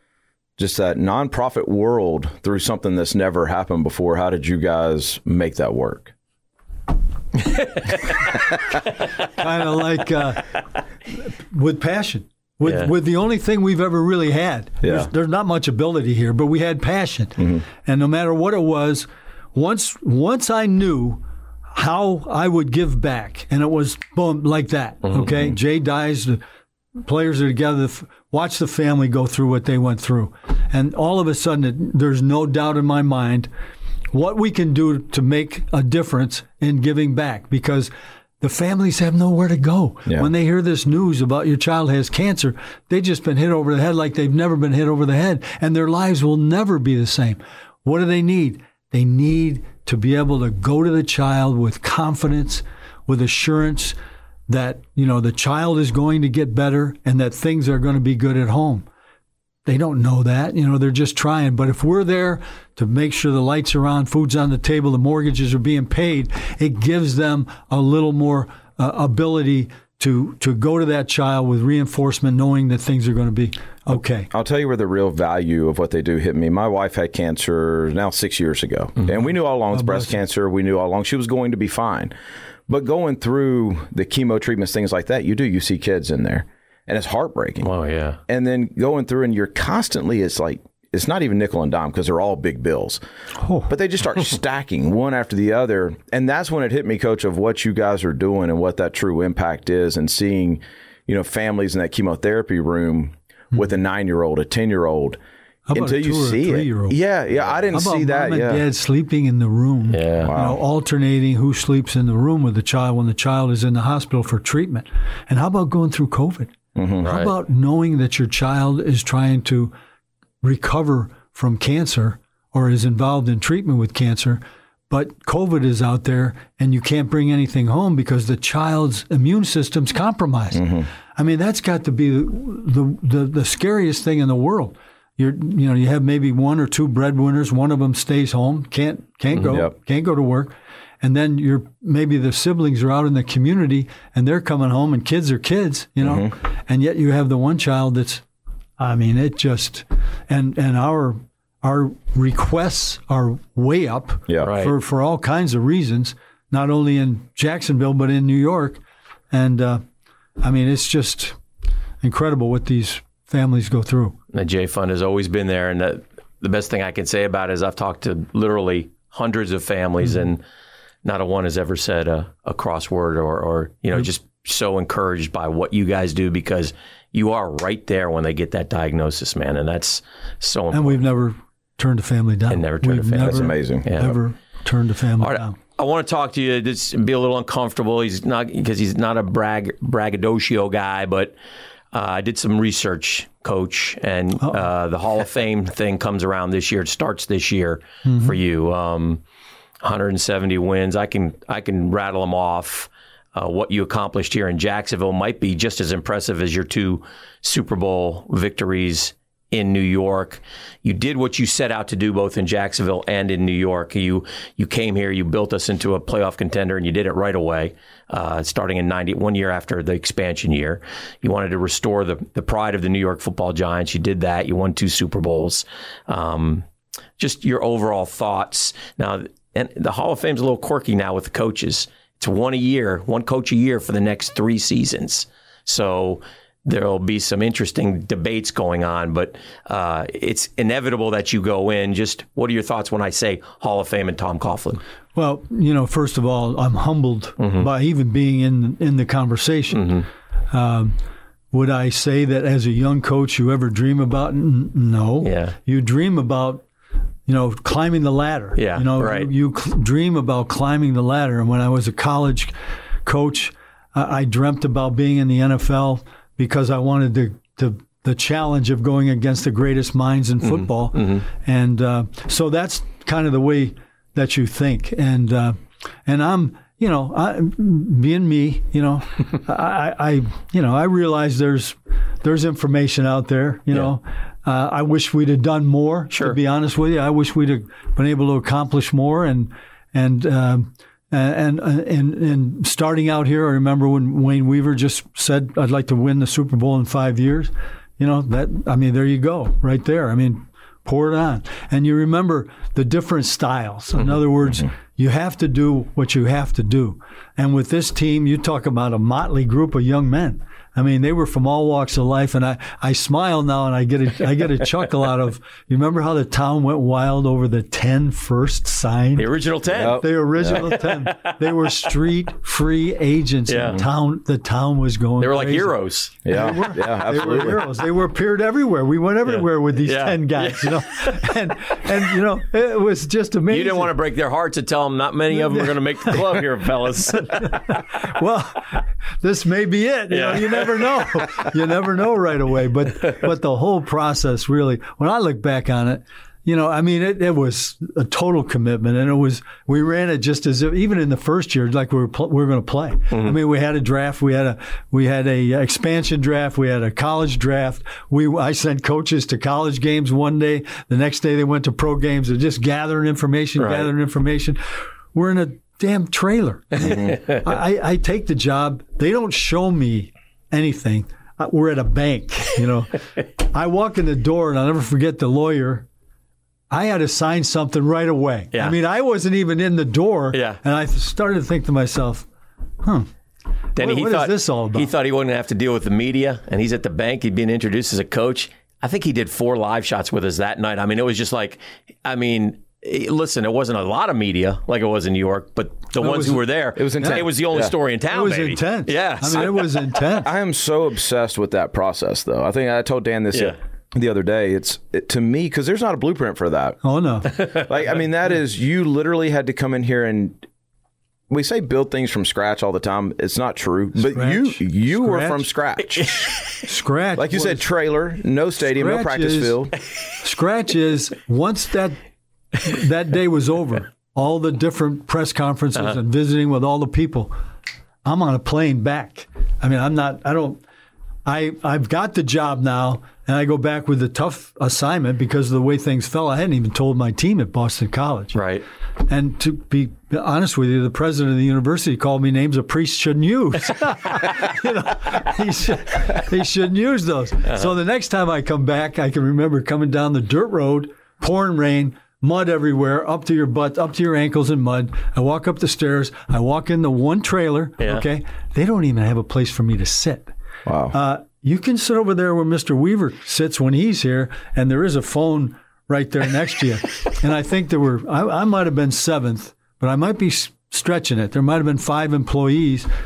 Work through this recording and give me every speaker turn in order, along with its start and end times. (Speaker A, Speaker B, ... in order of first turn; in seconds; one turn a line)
Speaker A: 0.6-6.1
Speaker B: 7.4-8.3
Speaker C: 9.2-21.2
Speaker B: 12.6-12.9
Speaker A: 14.8-15.1
Speaker A: 17.4-17.6
Speaker C: 21.7-26.4
Speaker C: 27.0-33.5
Speaker C: 34.1-54.0
Speaker C: 54.5-58.9
Speaker C: 59.6-74.3
Speaker A: 73.9-82.1
Speaker C: 79.7-80.2
Speaker A: 82.7-87.7
Speaker B: 87.6-88.2
Speaker A: 88.3-93.0
Speaker C: 93.4-93.7
Speaker A: 93.7-105.2
Speaker C: 105.7-107.0
Speaker A: 105.7-108.6
Speaker C: 107.7-119.7
Speaker B: 109.9-110.4
Speaker A: 110.2-110.6
Speaker A: 116.8-117.1
Speaker B: 117.0-117.3
Speaker C: 120.4-148.2
Speaker A: 130.5-130.9
Speaker A: 139.5-139.7
Speaker A: 146.0-146.3
Speaker C: 148.8-159.8
Speaker B: 154.4-154.7
Speaker C: 160.4-161.4
Speaker C: 162.0-164.2
Speaker B: 164.3-170.4
Speaker B: 171.0-181.0
Speaker C: 180.7-185.6
Speaker B: 182.5-184.2
Speaker A: 183.2-183.9
Speaker B: 185.2-191.3
Speaker B: 191.9-199.2
Speaker C: 194.4-194.7
Speaker C: 198.0-198.4
Speaker B: 199.8-226.7
Speaker B: 227.2-244.8
Speaker C: 245.1-249.8
Speaker B: 247.4-247.7
Speaker B: 249.7-250.1
Speaker C: 250.5-250.9
Speaker C: 251.5-256.6
Speaker B: 255.2-255.6
Speaker C: 257.3-262.5
Speaker B: 258.6-259.3
Speaker C: 263.0-333.9
Speaker B: 270.4-271.2
Speaker B: 286.1-286.4
Speaker B: 319.1-321.7
Speaker A: 319.7-320.7
Speaker B: 323.5-323.9
Speaker B: 325.2-326.2
Speaker A: 326.2-327.7
Speaker B: 329.2-331.2
Speaker B: 333.5-337.7
Speaker C: 335.3-336.4
Speaker C: 337.2-364.6
Speaker B: 340.1-341.5
Speaker B: 353.1-353.4
Speaker B: 363.6-363.9
Speaker C: 365.1-375.9
Speaker A: 366.8-367.2
Speaker C: 376.7-382.3
Speaker B: 380.3-380.6
Speaker C: 382.8-383.1
Speaker C: 383.8-384.9
Speaker B: 383.8-399.9
Speaker C: 395.9-396.4
Speaker A: 396.8-397.7
Speaker C: 398.1-400.3
Speaker A: 400.2-406.8
Speaker C: 406.8-407.3
Speaker B: 407.3-407.7
Speaker A: 407.6-410.4
Speaker A: 411.3-416.4
Speaker C: 414.0-415.5
Speaker B: 415.9-416.6
Speaker C: 416.6-417.7
Speaker A: 417.2-419.7
Speaker C: 418.6-419.6
Speaker C: 420.2-422.0
Speaker C: 422.6-427.3
Speaker C: 428.0-430.6
Speaker C: 431.2-438.4
Speaker B: 438.3-438.6
Speaker C: 439.0-460.3
Speaker B: 457.8-458.0
Speaker A: 460.6-460.9
Speaker C: 460.9-472.9